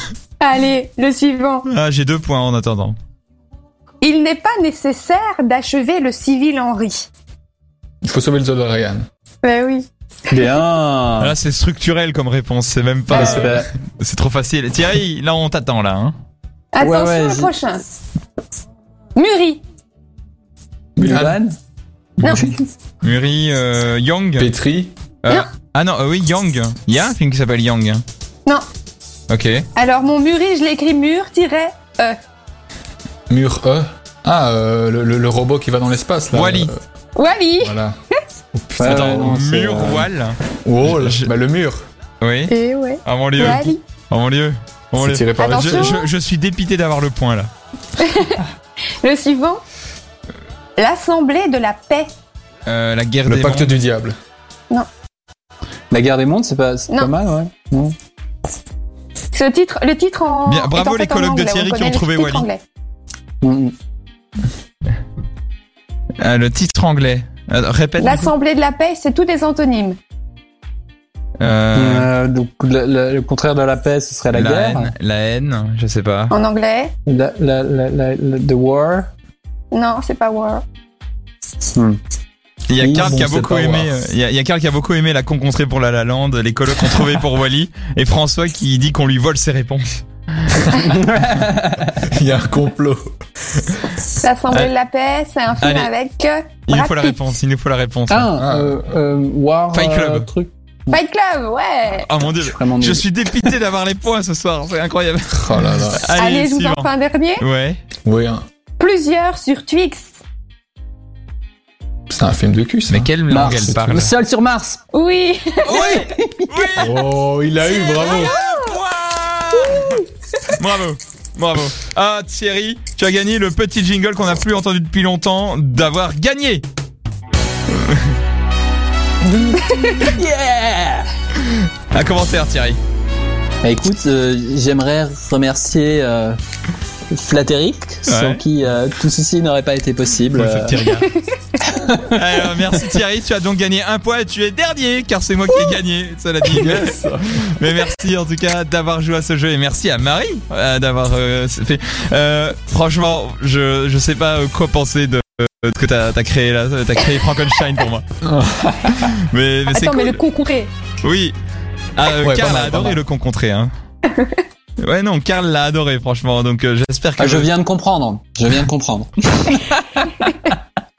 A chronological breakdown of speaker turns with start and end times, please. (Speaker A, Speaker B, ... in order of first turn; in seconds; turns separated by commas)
Speaker A: 0.4-1.7, Speaker B: 1.7-3.0, Speaker A: 4.0-7.1, Speaker C: 8.0-9.1, Speaker A: 9.4-10.4, Speaker D: 10.3-11.3, Speaker B: 11.2-16.1, Speaker D: 13.1-13.7, Speaker A: 16.7-17.8, Speaker D: 16.8-17.5, Speaker A: 19.1-19.6, Speaker C: 21.0-21.4, Speaker D: 21.0-21.6, Speaker D: 22.2-22.6, Speaker B: 23.0-24.5, Speaker C: 24.4-24.9, Speaker B: 25.2-28.0, Speaker B: 29.3-29.7, Speaker A: 29.8-32.2, Speaker C: 33.3-36.8, Speaker B: 36.3-36.7, Speaker A: 37.1-37.8, Speaker C: 37.6-37.9, Speaker C: 38.5-39.5, Speaker D: 38.8-40.1, Speaker B: 38.8-41.3, Speaker C: 40.6-41.8, Speaker B: 42.2-42.5, Speaker A: 42.5-43.8, Speaker B: 43.0-47.5, Speaker C: 45.0-45.9, Speaker A: 45.4-46.1, Speaker A: 48.0-48.4, Speaker A: 49.0-49.6, Speaker A: 50.8-52.1, Speaker B: 52.7-53.8, Speaker C: 53.3-54.2, Speaker D: 55.9-58.0, Speaker A: 59.3-62.6, Speaker B: 60.5-62.5, Speaker D: 63.4-63.7, Speaker B: 66.2-68.3, Speaker A: 68.0-70.0, Speaker B: 71.4-72.1, Speaker D: 71.8-74.9, Speaker B: 74.3-76.3, Speaker A: 76.3-76.9, Speaker D: 77.1-79.1, Speaker A: 79.7-80.6, Speaker D: 81.7-82.0, Speaker B: 82.7-90.8, Speaker D: 82.8-83.2, Speaker C: 82.9-83.9, Speaker D: 90.7-92.0, Speaker C: 92.0-93.0, Speaker A: 94.2-97.2, Speaker B: 95.6-95.9, Speaker B: 96.7-98.3, Speaker D: 98.1-101.0, Speaker C: 98.4-98.8, Speaker B: 99.7-100.3, Speaker A: 100.9-102.1, Speaker B: 101.9-107.8, Speaker D: 102.2-103.0, Speaker C: 105.3-106.0, Speaker A: 106.2-107.5, Speaker C: 108.0-108.4, Speaker A: 108.8-110.2, Speaker C: 112.1-113.1, Speaker B: 112.9-114.2, Speaker D: 113.3-114.8, Speaker A: 114.9-116.0, Speaker B: 115.7-117.0, Speaker D: 115.7-116.9, Speaker C: 116.8-118.4, Speaker A: 117.7-118.8, Speaker B: 117.8-126.7, Speaker A: 119.8-120.0, Speaker B: 127.7-128.0, Speaker D: 129.2-131.1, Speaker B: 131.5-132.8, Speaker D: 133.6-136.4, Speaker D: 137.1-141.0, Speaker B: 138.1-138.4, Speaker B: 140.3-141.1, Speaker A: 141.1-141.3, Speaker D: 141.7-142.1, Speaker B: 142.0-158.1, Speaker C: 146.4-147.4, Speaker C: 158.2-159.0, Speaker B: 158.9-160.2, Speaker A: 159.7-160.7, Speaker B: 161.0-161.4, Speaker B: 162.0-163.7, Speaker C: 162.2-163.0, Speaker A: 164.1-164.4, Speaker B: 164.8-167.5, Speaker D: 167.2-170.1